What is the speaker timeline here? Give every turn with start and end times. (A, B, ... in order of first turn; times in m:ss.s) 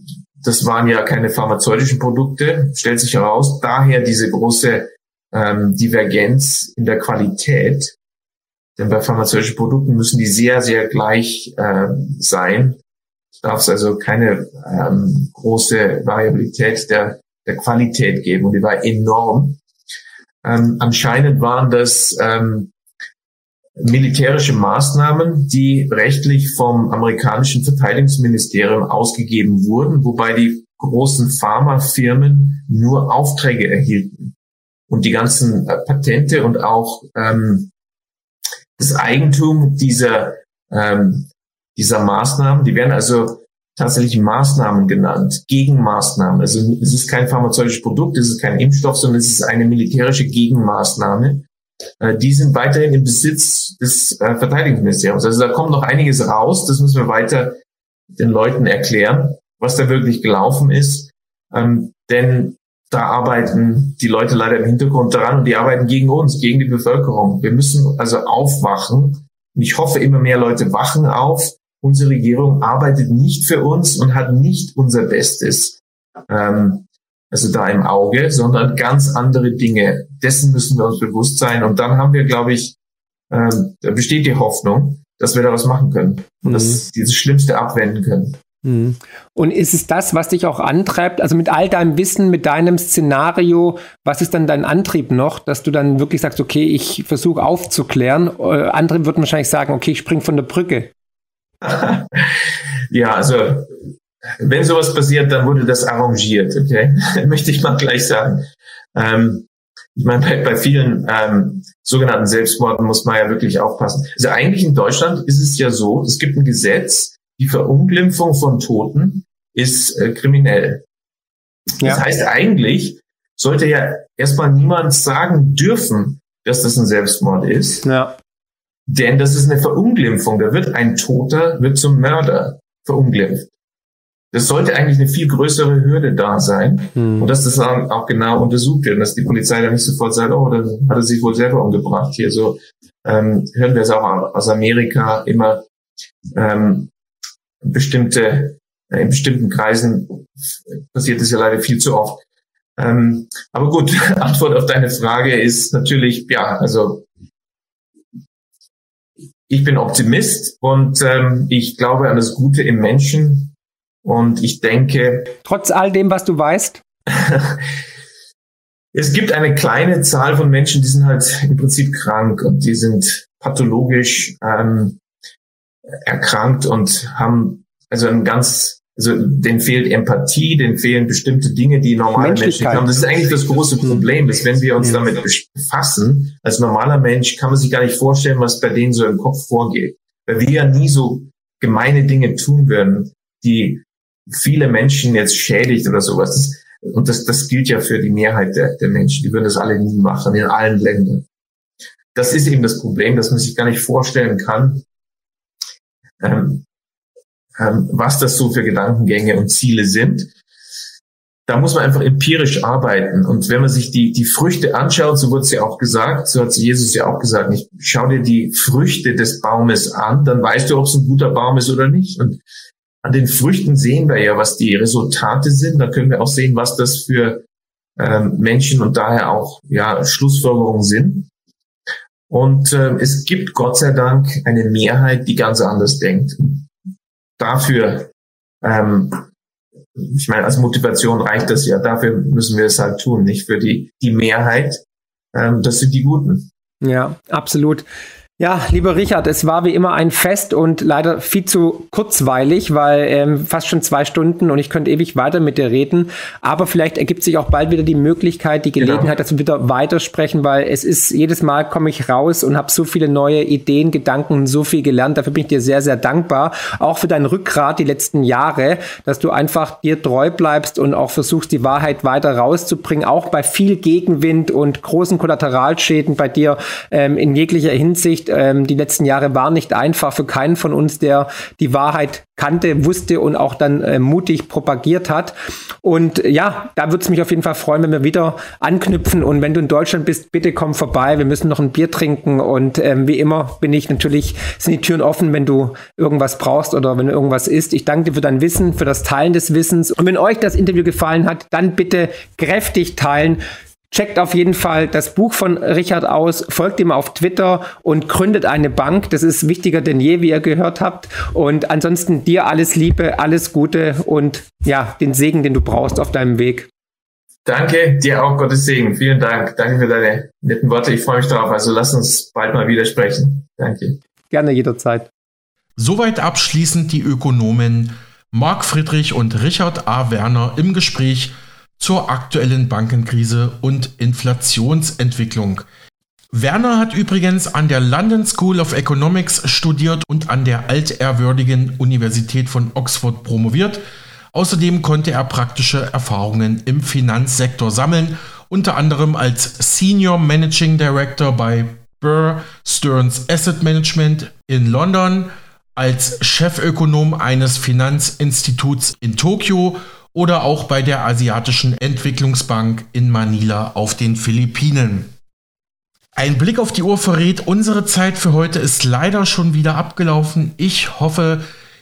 0:00.4-0:08.0 A
0:08.8-0:12.8 A
0:13.4-0:19.6 A
0:20.4-0:22.7 A
0:23.8-0:34.4 A
0:34.9-0:37.7 A
0:38.8-0:51.5 A
0:52.0-0:57.6 A
0:58.2-1:22.8 A
1:23.3-1:28.4 A
1:26.4-1:26.8 B
1:28.6-1:40.9 B
1:41.6-1:42.3 A
1:42.9-1:43.7 A
1:44.4-2:00.8 A
2:01.8-2:07.8 A
2:07.8-2:08.2 B
2:08.9-2:13.5 A
2:14.3-2:25.6 A
2:17.0-2:17.3 B
2:26.3-2:26.9 A
2:27.6-2:30.3 A
2:30.9-2:32.2 A
2:32.8-2:37.0 A
2:39.5-2:45.3 A
2:45.4-2:46.8 B
2:47.1-2:47.6 A
2:48.9-2:55.0 A
2:56.0-3:21.3 A
3:02.1-3:02.9 B
3:22.1-3:24.8 A
3:26.2-3:26.6 A
3:27.6-3:30.3 A
3:31.5-3:42.4 A
3:43.0-3:47.4 A
3:48.0-3:51.3 A
3:52.3-3:56.7 A
3:57.4-3:59.3 A
4:00.0-4:04.8 A
4:05.3-4:06.5 A
4:06.8-4:07.9 B
4:08.4-5:03.4 B
4:18.8-4:19.1 A
5:03.9-5:16.7 B
5:17.4-5:24.0 A
5:24.3-5:25.1 B
5:25.8-5:35.6 C
5:36.3-6:05.1 C
6:06.2-6:11.4 C